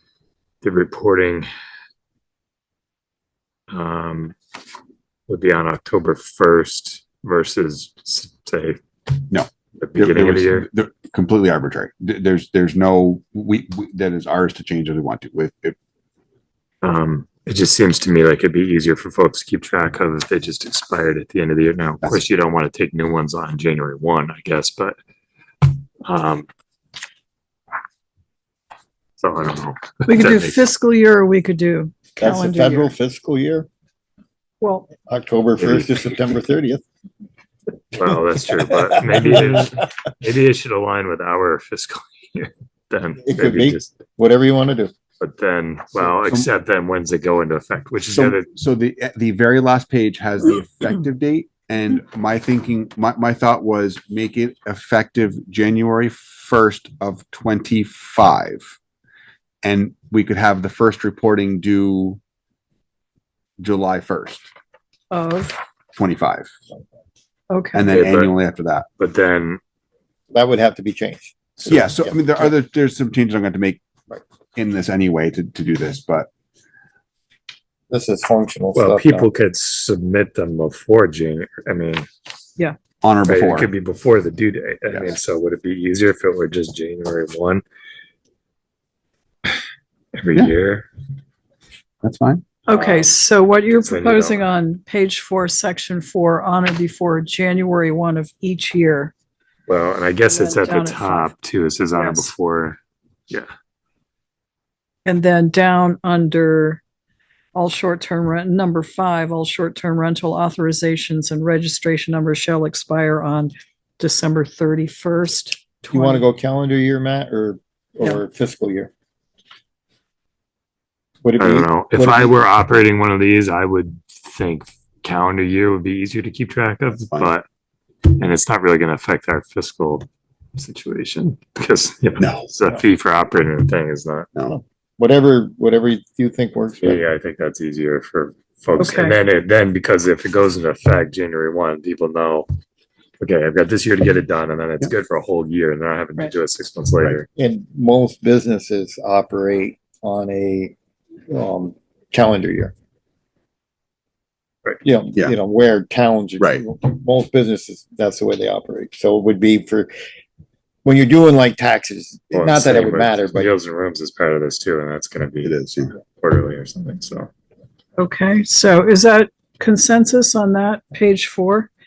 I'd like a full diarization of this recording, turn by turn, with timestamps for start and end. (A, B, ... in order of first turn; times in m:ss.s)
0:00.6-0:01.5 A
0:03.7-0:04.4 A
0:05.3-0:08.8 A
0:09.3-0:15.8 B
0:09.8-0:10.7 A
0:16.8-0:25.0 A
0:26.0-0:26.5 A
0:29.2-0:30.6 A
0:30.1-0:32.9 C
0:32.2-0:33.7 D
0:34.6-0:34.9 C
0:35.1-0:36.8 D
0:35.6-0:35.9 A
0:37.9-0:43.9 A
0:39.0-0:39.3 D
0:43.2-0:44.9 D
0:45.2-0:48.5 A
0:46.0-0:46.5 B
0:48.1-0:58.7 B
0:59.6-1:02.2 B
1:03.6-1:04.4 B
1:05.1-1:05.6 C
1:06.0-1:06.5 B
1:07.5-1:07.9 C
1:07.7-1:08.9 B
1:07.9-1:08.3 A
1:09.0-1:09.6 A
1:10.3-1:12.5 D
1:11.6-1:13.8 B
1:14.6-1:16.3 B
1:17.9-1:19.3 D
1:18.7-1:22.1 A
1:23.0-1:23.7 B
1:23.3-1:27.6 A
1:30.1-1:30.9 A
1:32.0-1:32.5 B
1:32.7-1:39.1 C
1:32.7-1:33.1 A
1:33.7-1:34.5 A
1:39.7-1:42.8 A
1:40.3-1:41.4 C
1:41.9-1:42.3 C
1:45.1-1:46.8 C
1:47.5-1:56.2 C
1:55.9-1:58.9 D
2:01.2-2:02.3 D
2:01.4-2:07.4 A
2:08.1-2:10.1 A
2:10.6-2:14.3 A
2:12.2-2:12.5 B
2:14.5-2:17.0 D
2:16.8-2:22.5 A
2:18.8-2:19.2 C
2:23.2-2:27.3 A
2:27.4-2:30.8 D
2:31.3-2:32.7 D
2:34.8-2:39.9 D
2:36.4-2:36.6 B
2:40.8-2:43.5 D
2:42.3-2:47.3 A
2:45.4-2:45.9 B
2:48.0-2:51.7 C